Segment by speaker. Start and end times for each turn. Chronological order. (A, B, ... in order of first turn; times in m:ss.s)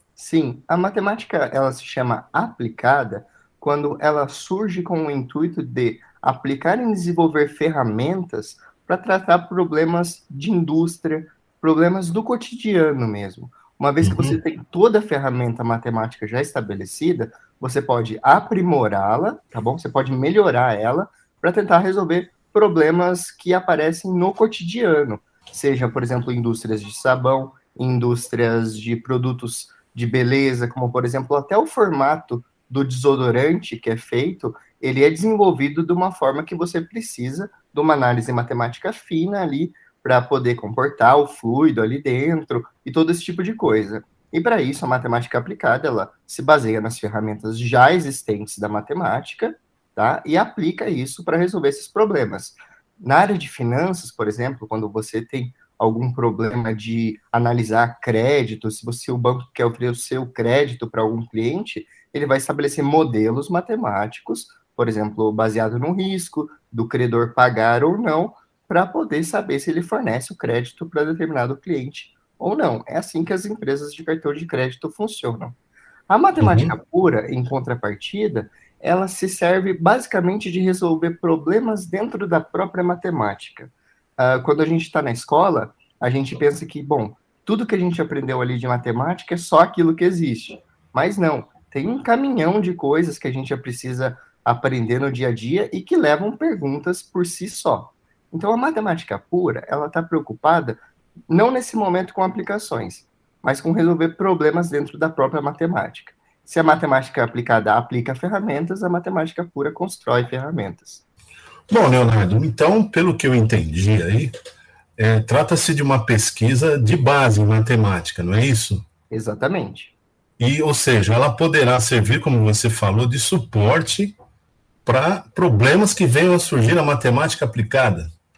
0:00.2-1:15.6 A
0:14.0-0:14.4 B
1:16.1-1:51.0 A
1:16.4-1:16.7 B
1:51.7-1:54.3 B
1:55.0-1:58.8 B
1:59.1-2:00.0 A
2:00.4-2:04.2 B
2:04.8-2:08.1 B